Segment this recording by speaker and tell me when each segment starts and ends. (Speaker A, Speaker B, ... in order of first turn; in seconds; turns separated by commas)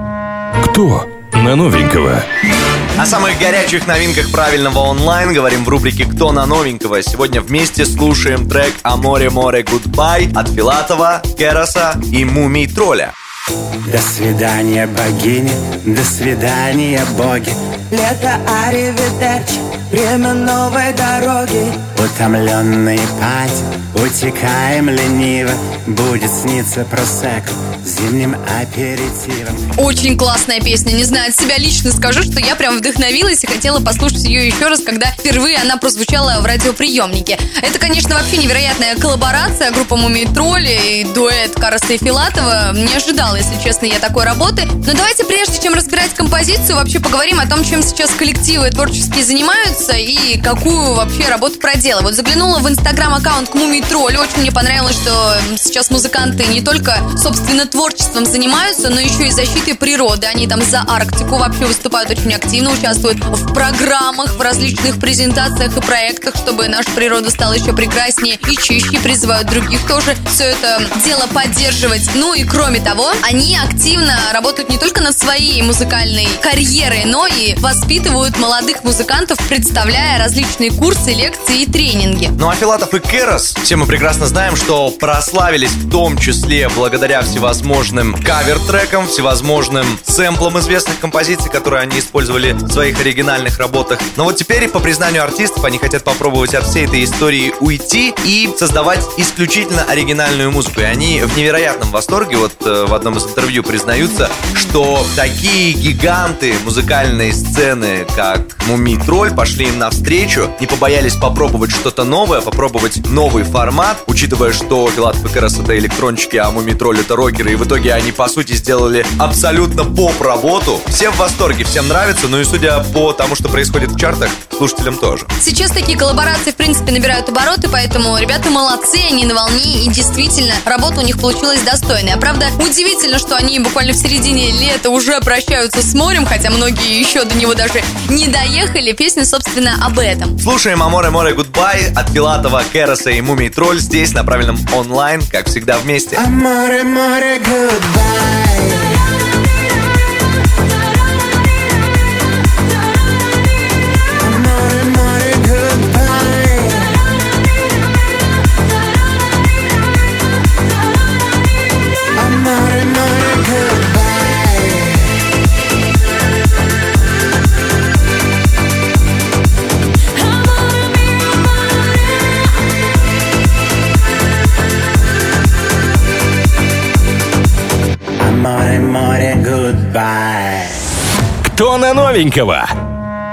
Speaker A: 0.6-2.2, Speaker B: 3.0-13.1, Speaker C: 13.9-17.5, Speaker D: 17.9-21.8, Speaker C: 21.9-29.6, Speaker E: 29.8-82.3, Speaker B: 82.4-125.3, Speaker E: 125.4-140.3, Speaker B: 140.4-146.2, Speaker C: 146.1-149.1, Speaker C: 154.2-157.1, Speaker C: 162.1-165.2, Speaker C: 178.2-180.8, Speaker A: 181.4-182.7